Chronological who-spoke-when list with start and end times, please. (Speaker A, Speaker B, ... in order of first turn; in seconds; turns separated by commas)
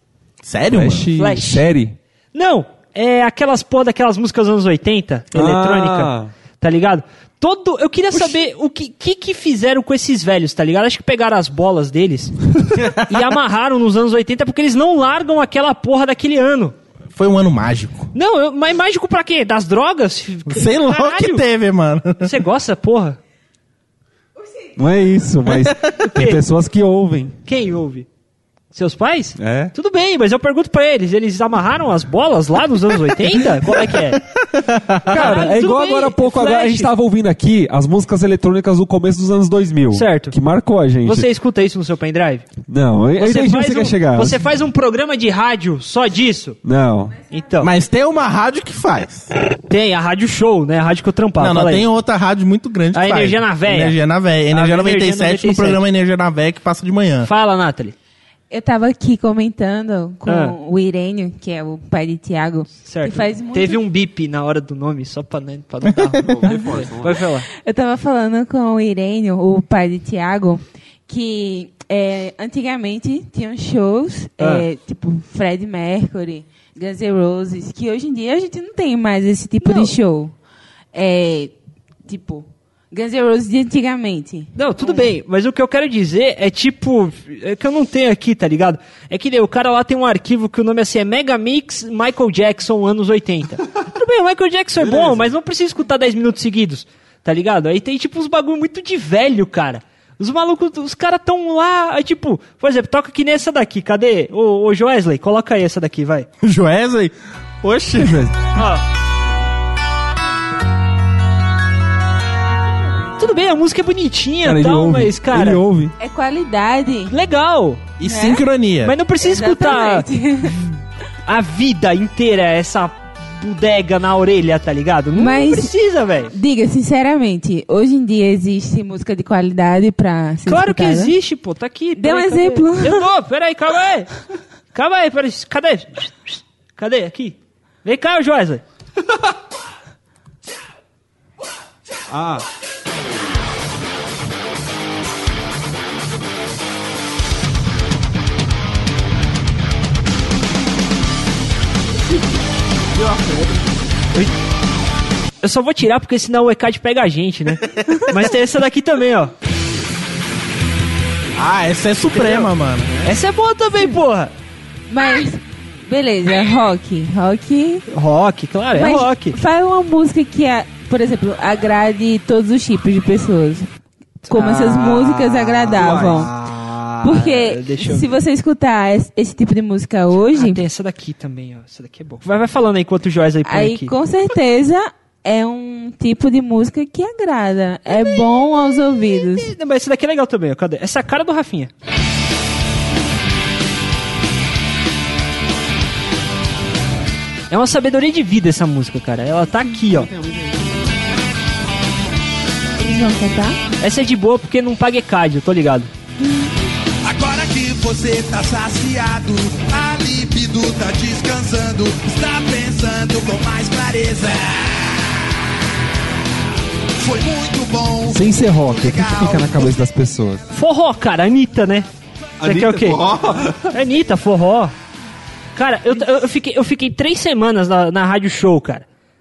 Speaker A: 0.4-1.1, Speaker B: 0.7-2.0, Speaker C: 1.1-1.6, Speaker C: 2.3-16.7, Speaker B: 5.3-6.3, Speaker A: 17.1-18.1, Speaker C: 18.1-21.4, Speaker A: 20.5-22.3, Speaker C: 22.2-23.2, Speaker B: 24.8-27.4, Speaker A: 25.5-25.9, Speaker C: 26.0-26.4, Speaker C: 27.4-28.1, Speaker C: 28.7-34.2, Speaker B: 29.4-29.7, Speaker A: 33.9-35.3, Speaker B: 35.1-41.3, Speaker C: 35.1-36.9, Speaker C: 39.9-40.3, Speaker C: 41.0-42.5, Speaker B: 42.7-44.4, Speaker C: 43.2-46.6, Speaker B: 46.6-47.1, Speaker C: 47.3-47.7, Speaker A: 47.6-49.3, Speaker C: 49.7-51.9, Speaker A: 51.4-57.3, Speaker C: 52.9-54.0, Speaker C: 54.5-55.8, Speaker C: 57.2-57.9, Speaker D: 58.5-63.8, Speaker C: 60.2-60.5, Speaker C: 62.8-67.5, Speaker B: 66.3-67.2, Speaker A: 66.3-66.8, Speaker D: 67.5-80.3, Speaker C: 74.4-74.7, Speaker C: 79.6-79.9, Speaker D: 80.9-81.5, Speaker D: 82.1-85.0, Speaker C: 84.5-106.3, Speaker B: 94.8-95.3, Speaker A: 106.4-107.1, Speaker A: 107.6-108.3, Speaker B: 108.0-108.3, Speaker C: 108.5-108.8, Speaker C: 113.2-115.6, Speaker B: 114.4-115.9, Speaker D: 116.0-117.1, Speaker C: 117.1-117.8, Speaker A: 118.0-119.0, Speaker D: 118.1-118.4, Speaker C: 118.8-120.1, Speaker D: 119.2-120.7, Speaker C: 121.2-126.3, Speaker D: 125.1-125.7, Speaker D: 126.3-131.1, Speaker C: 130.4-134.1, Speaker D: 132.0-133.0, Speaker C: 134.7-138.6, Speaker B: 142.1-142.4, Speaker A: 153.0-153.4, Speaker C: 155.4-159.3, Speaker A: 161.3-163.0, Speaker C: 162.2-162.4, Speaker C: 163.0-164.3, Speaker D: 164.9-167.8, Speaker C: 167.9-169.3, Speaker D: 168.7-173.7, Speaker C: 174.2-178.1, Speaker D: 174.3-176.3, Speaker B: 175.7-176.3, Speaker D: 177.0-180.6, Speaker C: 180.3-183.9, Speaker D: 183.4-189.5, Speaker C: 189.3-191.7, Speaker C: 197.5-200.1, Speaker B: 199.8-200.8, Speaker D: 202.8-203.6, Speaker C: 203.8-205.9, Speaker E: 207.1-214.7, Speaker A: 208.6-208.9, Speaker E: 217.0-218.1, Speaker B: 218.0-220.4, Speaker E: 219.1-219.4, Speaker C: 220.5-221.9, Speaker B: 222.4-223.7, Speaker C: 222.4-223.0, Speaker C: 223.7-224.7, Speaker C: 225.5-228.8